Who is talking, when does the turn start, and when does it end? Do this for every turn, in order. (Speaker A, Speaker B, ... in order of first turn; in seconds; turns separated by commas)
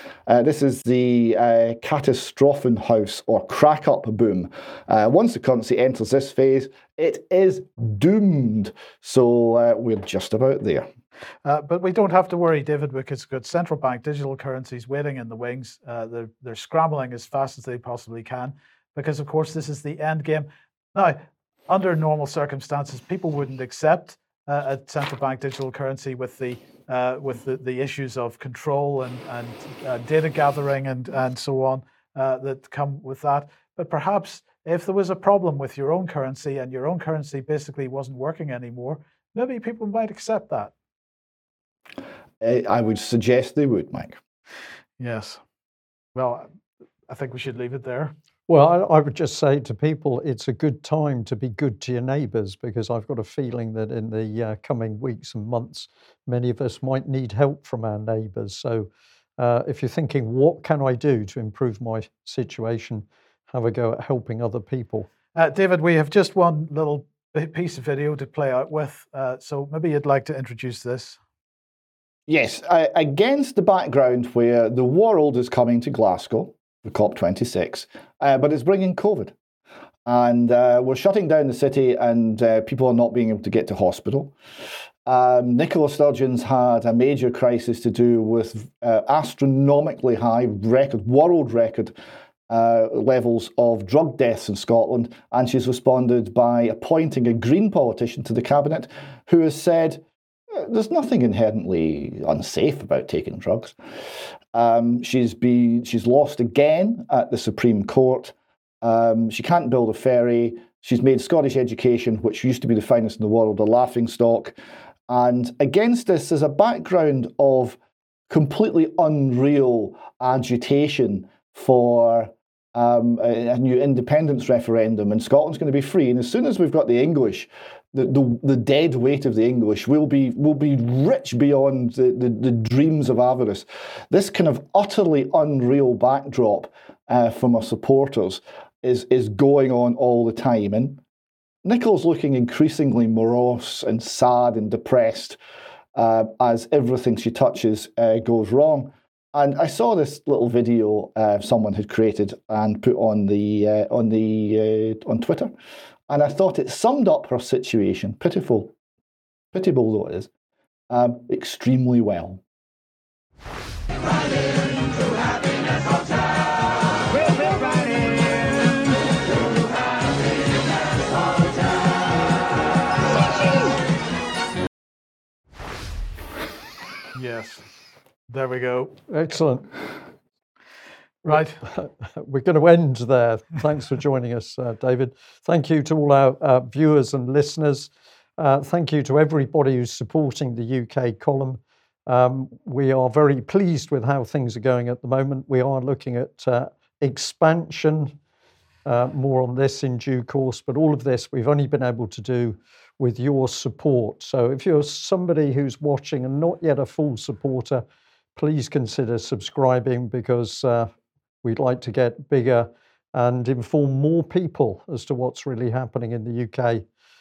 Speaker A: 0.3-10.9, Speaker B: 11.4-40.7, Speaker A: 42.4-44.2, Speaker B: 45.0-45.4, Speaker B: 46.1-46.5, Speaker B: 47.1-48.1, Speaker C: 48.5-65.1, Speaker B: 65.3-71.2, Speaker A: 72.3-79.3, Speaker A: 80.1-84.3, Speaker A: 85.1-92.0, Speaker A: 92.5-103.8, Speaker A: 104.5-114.6, Speaker A: 115.1-117.8, Speaker A: 118.3-141.0, Speaker A: 141.6-145.4, Speaker A: 145.9-155.5, Speaker A: 156.1-158.8, Speaker A: 159.5-160.3, Speaker A: 160.9-162.4, Speaker B: 177.1-177.7, Speaker B: 178.3-179.0, Speaker C: 179.1-179.7, Speaker B: 181.2-181.6, Speaker C: 181.3-198.2, Speaker C: 198.9-207.8, Speaker C: 208.4-210.9, Speaker C: 211.4-216.8